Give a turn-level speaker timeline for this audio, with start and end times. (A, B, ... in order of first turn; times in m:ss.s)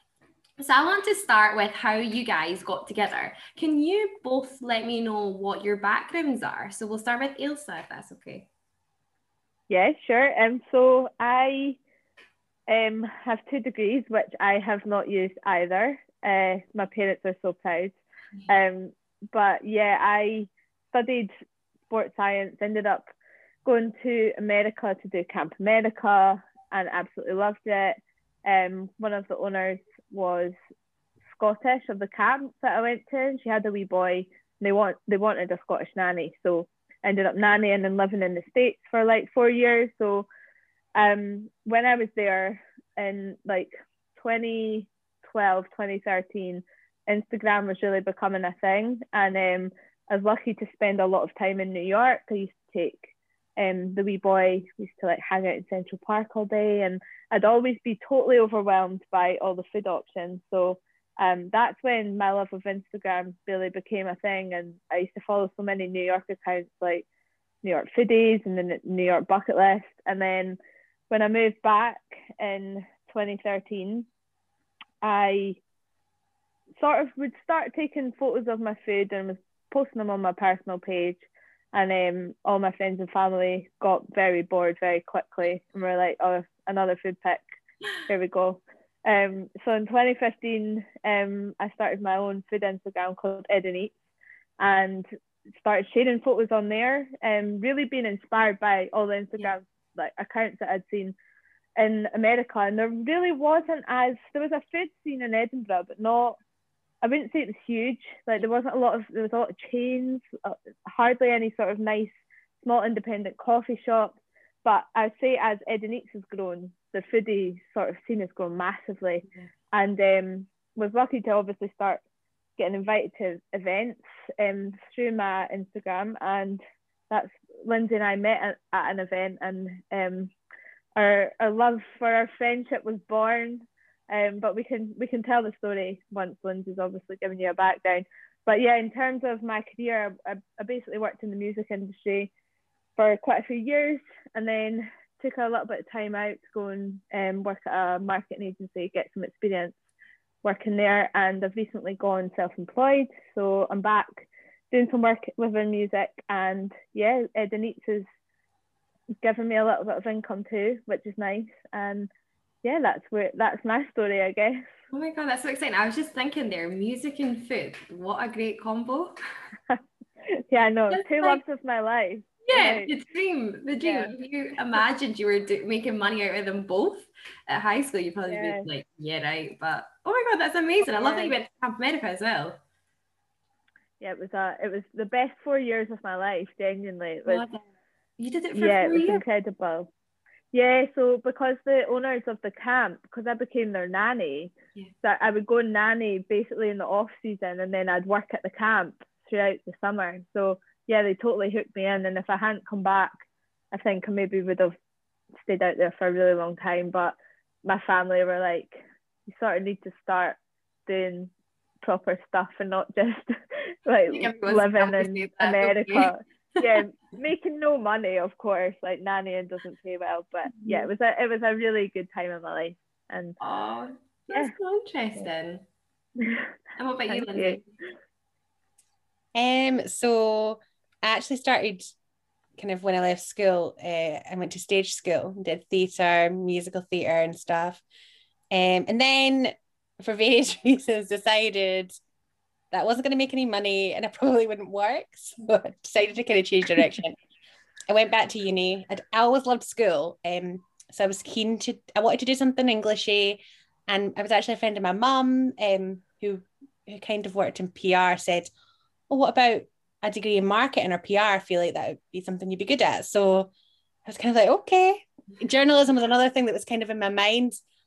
0:00.6-0:08.5 A
0:09.7-0:11.8 B
0:12.7-0:18.0 B
0:18.5-0:21.3 B
0:21.9-0:23.0 B
0:23.6-0:30.6 B
0:31.3-0:40.3 B
0:41.0-1:07.1 B
1:07.6-1:10.6 B
1:11.1-1:14.1 B
1:15.0-1:15.6 B
1:16.8-1:21.2 B
1:21.7-1:27.4 B
1:28.0-1:34.0 B
1:34.6-1:35.1 B
1:35.6-1:41.2 B
1:41.8-1:46.4 B
1:47.0-2:02.0 B
2:02.6-2:10.3 B
2:11.0-2:22.3 B
2:23.0-2:29.8 B
2:30.4-2:38.1 B
2:39.2-2:42.1 B
2:42.6-2:44.6 B
2:44.9-2:49.2 A
2:50.5-2:52.9 B
2:50.9-2:51.4 A
2:52.5-3:02.6 A
2:53.8-2:54.1 B
2:58.3-2:58.7 B
3:00.8-3:01.4 B
3:04.0-3:07.4 B
3:07.3-3:07.6 A
3:08.2-3:09.2 A
3:08.6-3:09.9 B
3:10.5-3:23.2 B
3:23.7-3:24.8 B
3:25.4-3:28.8 B
3:29.3-3:31.3 B
3:31.8-3:43.4 B
3:34.1-3:36.8 A
3:40.5-3:40.9 A
3:43.4-3:45.6 A
3:46.2-3:46.5 B
3:46.8-3:47.7 A
3:47.1-3:47.6 B
3:49.4-3:51.8 C
3:52.6-3:57.8 C
3:58.5-4:01.9 C
4:02.7-4:07.2 C
4:07.9-4:18.5 C
4:19.1-4:23.5 C
4:24.1-4:27.6 C